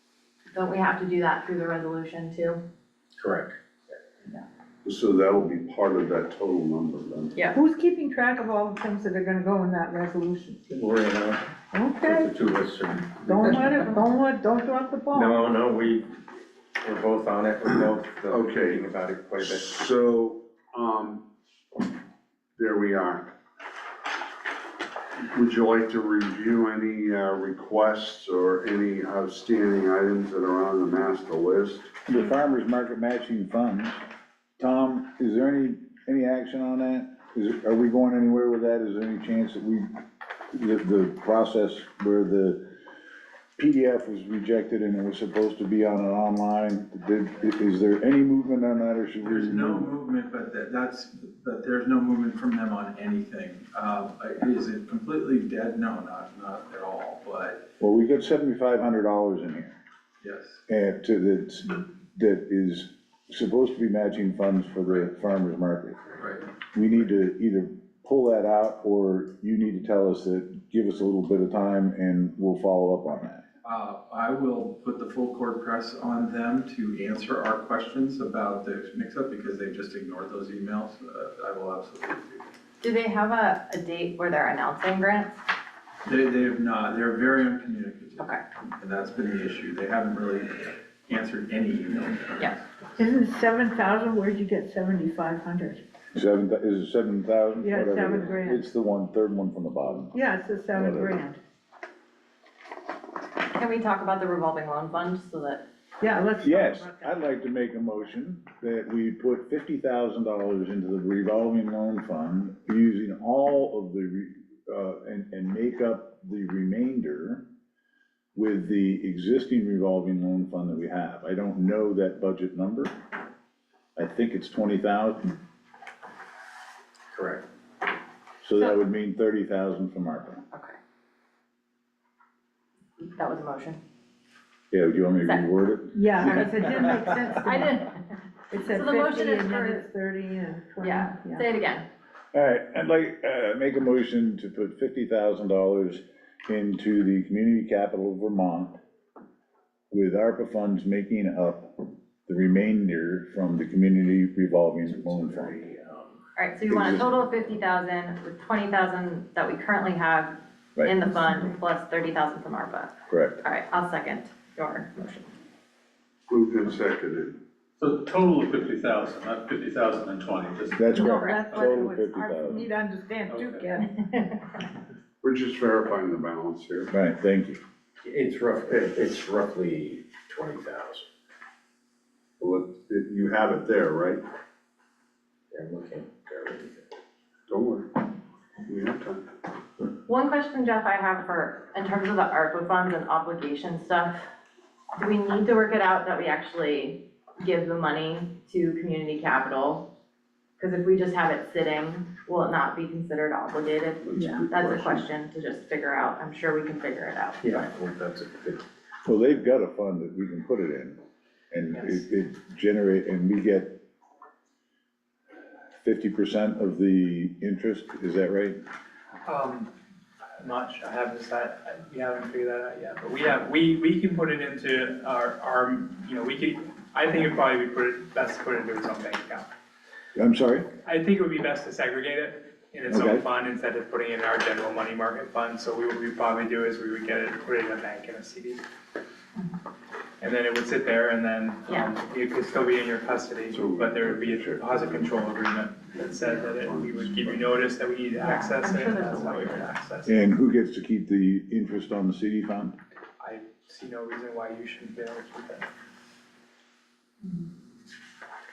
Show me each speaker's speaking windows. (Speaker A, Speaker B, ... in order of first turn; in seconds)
Speaker A: 0.5-2.6, 82.8-85.4, 103.5-105.6, 133.0-133.8, 136.2-139.9, 140.8-141.9, 156.3-165.3, 170.9-171.4, 173.8-174.4, 190.1-194.2, 194.9-199.9, 200.6-207.5, 248.2-249.7
Speaker B: 3.2-3.6, 10.7-11.4, 12.1-13.5, 15.1-16.1, 16.8-19.8, 127.1-127.4, 154.9-156.2, 178.0-181.1, 185.5-186.8, 207.4-208.6
Speaker C: 4.8-7.3, 18.3-21.2, 22.6-23.3, 25.3-31.9, 166.3-167.4, 175.2-176.9, 182.4-184.2, 187.5-187.9, 188.7-189.2, 204.1-205.1, 243.5-245.2, 245.9-247.6
Speaker D: 7.5-10.6, 11.7-12.3, 13.2-15.4, 93.0-95.8, 97.6-98.6, 100.1-101.4, 106.0-107.1, 135.9-137.8, 138.5-141.5, 170.9-173.9, 204.2-204.4
Speaker E: 32.0-34.0, 34.6-39.9, 40.5-42.6, 43.6-49.9, 57.8-59.8, 60.7-66.1, 66.7-73.4, 96.1-100.1, 100.7-101.2, 106.4-117.5, 118.3-123.0, 124.0-125.3, 128.4-130.4, 134.7-136.6, 142.3-148.8, 149.9-155.6, 156.7-157.2, 163.1-163.4, 170.8-172.7, 176.9-177.6, 209.1-211.0, 211.5-213.8, 215.8-218.6, 230.2-230.7, 232.9-233.2, 250.1-252.8
Speaker F: 49.2-57.7, 60.2-60.6, 66.2-66.5, 73.6-82.5, 86.0-92.6
Speaker G: 167.8-170.8
Speaker H: 211.7-212.0, 219.2-219.7, 220.4-229.5, 230.8-238.6, 240.2-250.2, 253.2-255.7